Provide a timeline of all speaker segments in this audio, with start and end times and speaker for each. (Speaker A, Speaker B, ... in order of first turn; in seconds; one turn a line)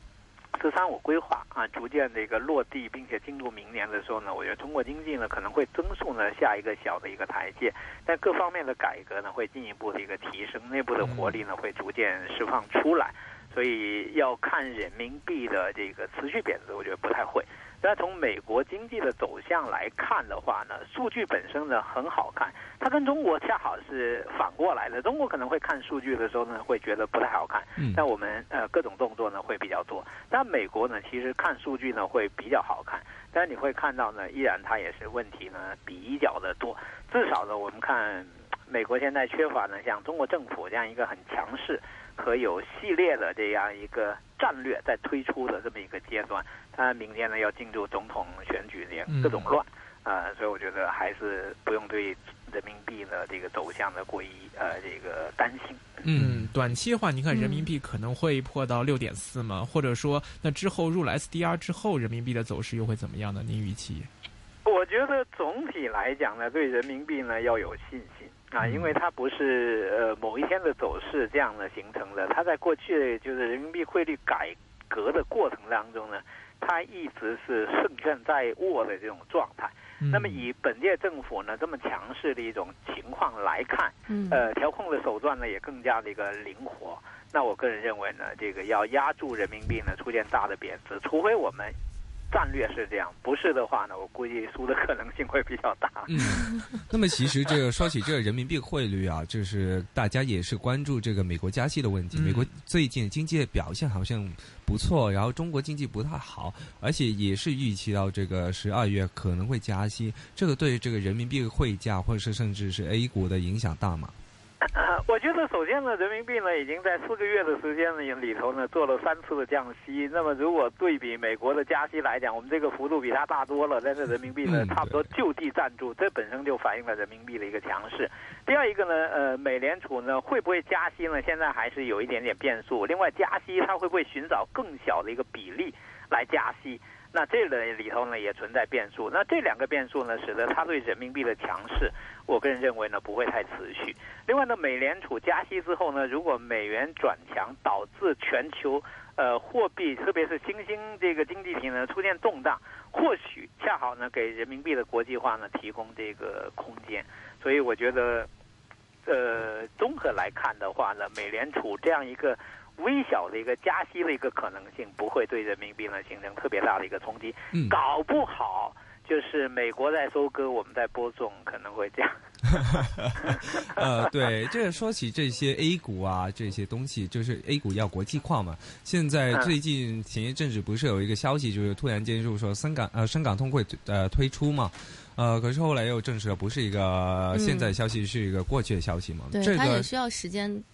Speaker A: 0.6-55.9
Speaker B: 11.0-11.3
Speaker B: 49.1-49.5
Speaker C: 56.0-56.5
Speaker B: 56.1-64.1
Speaker D: 57.3-57.7
Speaker A: 64.7-91.8
Speaker B: 80.0-80.4
Speaker D: 84.1-84.5
Speaker A: 92.3-96.6
Speaker C: 96.1-114.2
Speaker B: 102.1-102.5
Speaker A: 114.6-158.3
Speaker C: 124.5-125.0
Speaker A: 159.1-172.7
Speaker C: 173.0-189.9
Speaker D: 187.3-187.7
Speaker D: 189.3-190.7